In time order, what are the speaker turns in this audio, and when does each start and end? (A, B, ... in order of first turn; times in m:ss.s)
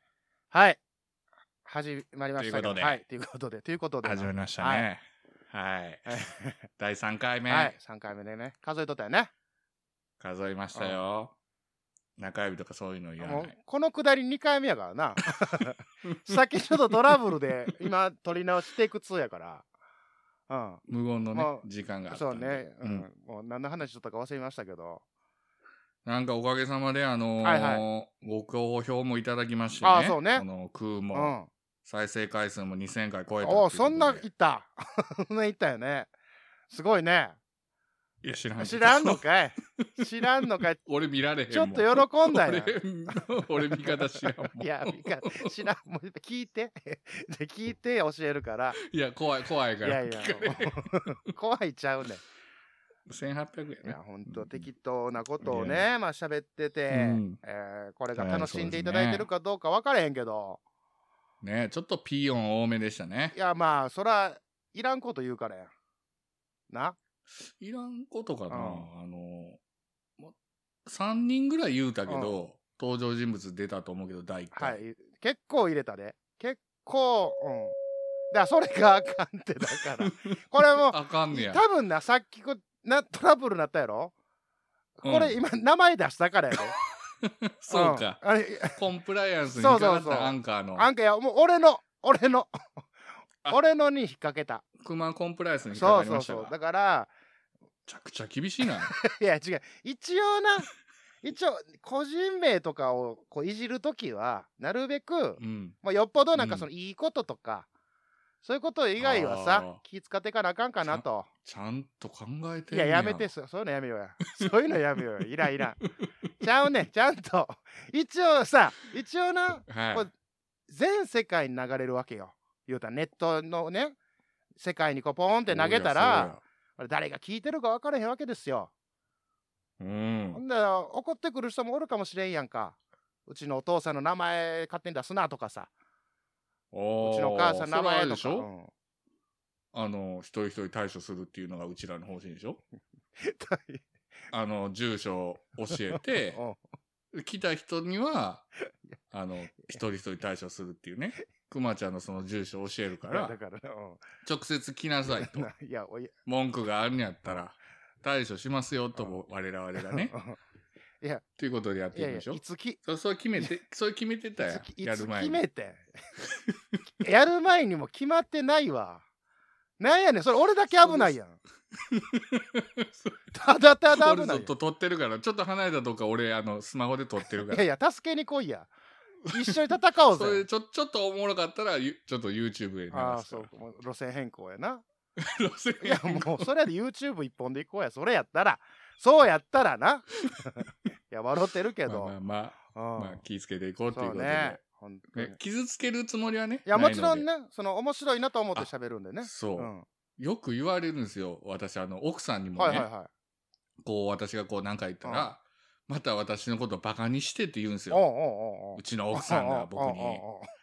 0:00.5-0:00.8 A
0:01.6-0:04.9 A
0:02.4-0:03.0 B
0:04.0-0:07.7 B
0:06.1-0:06.6 A
0:07.5-0:09.3 A
0:10.2-0:11.4 B
0:12.2-0:13.5 B
0:13.2-0:19.7 A
0:15.4-0:17.8 B
0:20.5-0:20.8 A
0:20.9-0:23.1 B
0:21.3-0:25.0 A
0:26.0-0:34.3 B
0:27.4-0:27.8 A
0:29.8-0:30.4 A
0:31.1-0:31.5 A
0:33.4-0:36.1 A
0:36.7-0:37.4 A
0:38.2-0:39.2 B
0:38.6-0:40.8 A
0:39.8-0:40.2 B
0:40.8-0:45.6 B
0:41.5-0:48.8 A
0:48.8-0:51.2 B
0:49.8-0:52.2 A
0:53.1-0:54.7 B
0:53.8-1:00.6 A
0:55.4-0:55.9 B
0:56.9-0:57.4 B
0:58.1-0:59.3 B
1:01.4-1:03.3 B
1:03.3-1:05.7 A
1:06.7-1:07.0 A
1:07.4-1:09.6 B
1:08.5-1:08.9 A
1:10.8-1:14.8 B
1:12.1-1:12.4 A
1:14.5-1:17.8 A
1:18.3-1:24.1 A
1:19.8-1:21.6 B
1:25.0-1:26.8 A
1:25.0-1:25.4 B
1:27.1-1:30.9 B
1:27.7-1:28.8 A
1:29.5-1:32.8 A
1:33.5-1:34.6 A
1:34.8-1:36.6 B
1:35.7-1:37.1 A
1:37.9-1:39.0 B
1:38.8-1:40.7 A
1:41.2-1:47.7 A
1:45.4-1:45.8 B
1:46.3-1:46.7 B
1:48.4-1:51.3 A
1:49.0-1:49.8 B
1:50.8-1:53.3 B
1:52.7-1:55.8 A
1:56.4-2:00.1 A
1:59.7-2:00.1 B
2:00.7-2:04.0 A
2:04.6-2:08.7 A
2:05.5-2:06.4 B
2:09.8-2:10.4 B
2:10.3-2:15.7 A
2:16.7-2:18.5 B
2:17.0-2:18.7 A
2:19.7-2:22.6 B
2:23.2-2:23.8 A
2:24.3-2:26.4 B
2:25.7-2:26.6 A
2:27.1-2:28.5 B
2:29.1-2:33.4 B
2:33.1-2:34.1 A
2:34.2-2:35.5 B
2:35.1-2:36.1 A
2:36.2-2:40.1 B
2:39.8-2:40.4 A
2:41.0-2:41.2 A
2:41.4-2:45.4 B
2:41.9-2:42.8 A
2:44.5-2:45.9 A
2:46.2-2:46.8 B
2:47.0-2:49.0 A
2:49.8-2:51.4 A
2:50.8-2:51.2 B
2:51.9-2:53.2 B
2:53.3-2:54.5 A
2:53.9-2:57.6 B
2:57.5-2:58.7 A
2:59.3-2:59.6 B
2:59.3-3:00.5 A
3:00.1-3:03.5 B
3:02.9-3:04.8 A
3:05.2-3:06.5 B
3:05.8-3:12.1 A
3:10.2-3:10.7 B
3:11.8-3:14.6 B
3:12.7-3:13.2 A
3:13.9-3:15.4 A
3:15.1-3:17.3 B
3:16.7-3:19.8 A
3:19.2-3:22.9 B
3:22.6-3:23.1 A
3:23.8-3:28.0 B
3:25.0-3:25.3 A
3:27.9-3:30.5 A
3:28.8-3:30.2 B